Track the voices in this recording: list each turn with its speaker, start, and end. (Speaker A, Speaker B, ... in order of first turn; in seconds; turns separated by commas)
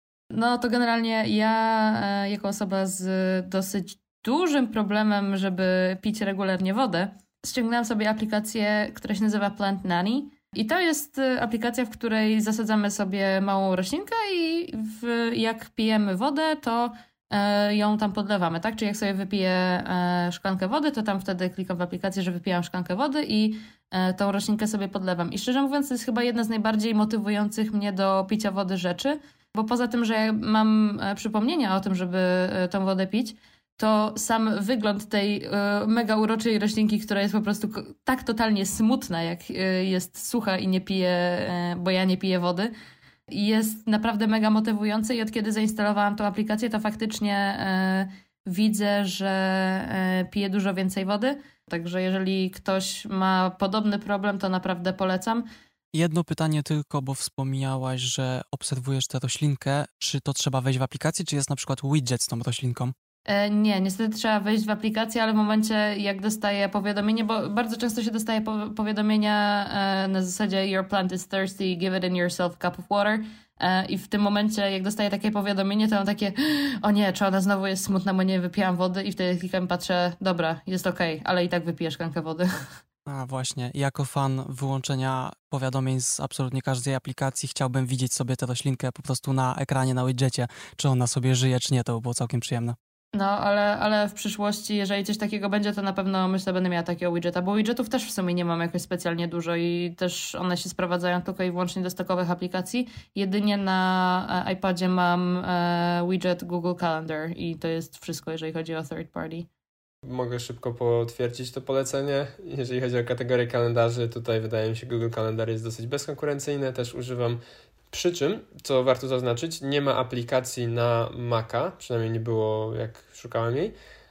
Speaker A: 0.3-42.7, Speaker A: 43.3-55.5, Speaker B: 55.9-62.9, Speaker A: 63.3-82.7, Speaker B: 83.0-92.8, Speaker A: 93.1-109.5, Speaker C: 110.0-117.4, Speaker C: 117.9-123.7